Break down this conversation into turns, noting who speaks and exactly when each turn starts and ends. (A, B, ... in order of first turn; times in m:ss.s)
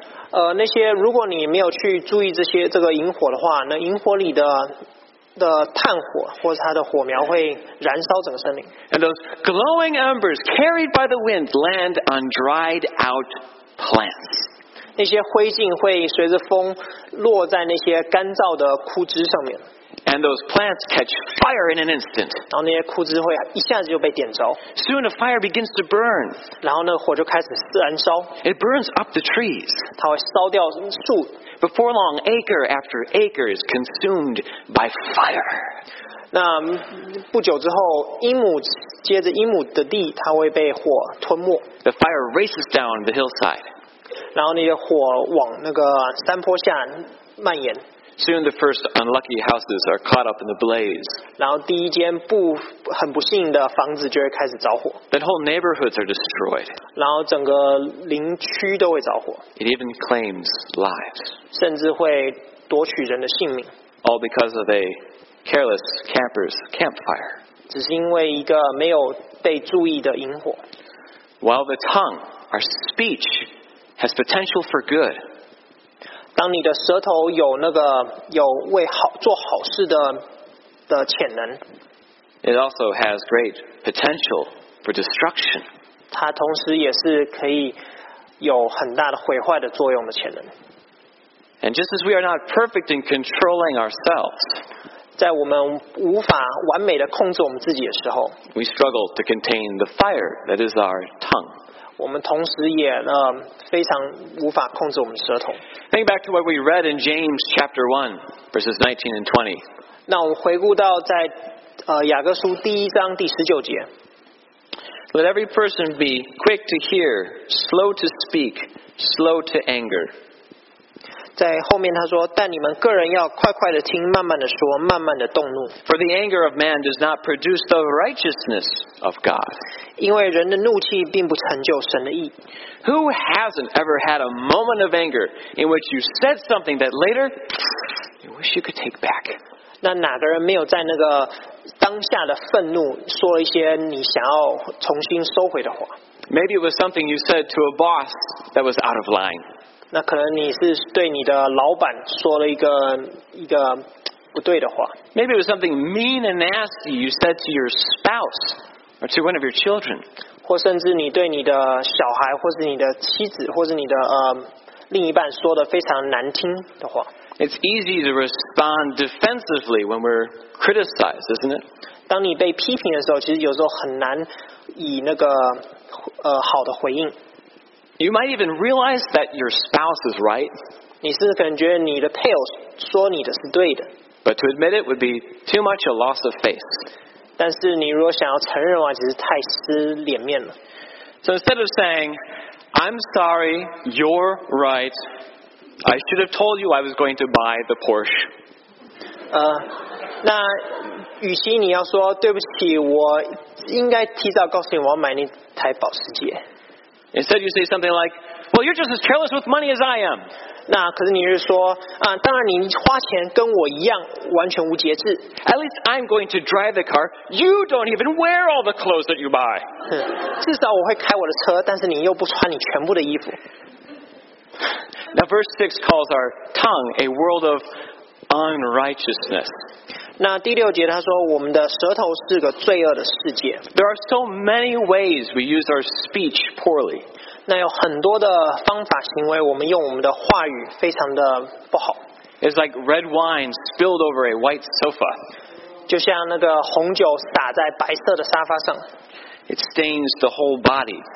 0:00.3-0:04.8 A
0:05.4-0:08.7 A
0:08.9-0:14.4 B
0:15.0-0:19.6 A
0:20.1-0:22.4 B
0:22.5-0:24.6 A
0:24.8-0:26.4 B
0:26.6-0:28.3 A
0:28.4-0:29.9 B
0:30.0-0:31.4 A
0:31.6-0:35.7 B
0:36.3-0:41.7 A
0:41.8-0:43.6 B
0:44.4-0:47.8 A
0:48.2-0:51.2 B
0:51.4-0:55.0 A
0:55.1-0:56.8 B
0:57.0-0:59.4 A
0:59.6-1:01.3 B
1:01.5-1:03.7 A
1:04.0-1:07.4 B
1:07.7-1:10.6 A
1:11.4-1:13.5 B
1:14.0-1:15.2 B
1:16.4-1:20.2 A
1:20.9-1:21.6 A
1:22.4-1:25.6 B
1:26.1-1:27.8 A
1:28.4-1:30.5 A
1:31.6-1:34.5 B
1:35.2-1:38.4 A
1:38.5-1:41.6 B
1:42.0-1:45.6 A
1:45.9-1:49.6 B
1:50.1-1:51.4 A
1:51.9-1:53.9 A
1:55.1-2:00.1 B
2:01.4-2:05.8 A
2:05.8-2:09.6 B
2:10.0-2:12.4 A
2:12.8-2:17.7 B
2:18.2-2:19.4 B
2:19.8-2:25.9 A
2:26.3-2:29.4 B
2:29.9-2:35.0 A
2:35.1-2:40.0 B
2:40.4-2:47.1 A
2:47.4-2:51.6 B
2:52.1-2:57.1 A
2:58.0-3:00.5 B
3:01.0-3:03.9 A
3:04.2-3:06.7 B
3:07.4-3:10.5 A
3:11.2-3:12.2 B
3:12.7-3:15.0 B
3:15.8-3:18.3 B
3:19.3-3:19.7 A
3:20.2-3:26.4 A
3:27.1-3:30.3 B
3:30.7-3:35.3 A
3:35.4-3:39.7 B
3:39.9-3:43.4 A
3:45.1-3:47.6 B
3:48.3-3:49.5 B
3:50.2-3:53.7 A
3:53.7-3:57.1 B
3:57.5-4:02.0 A
4:02.4-4:05.2 B
4:05.9-4:08.8 A
4:09.5-4:11.0 B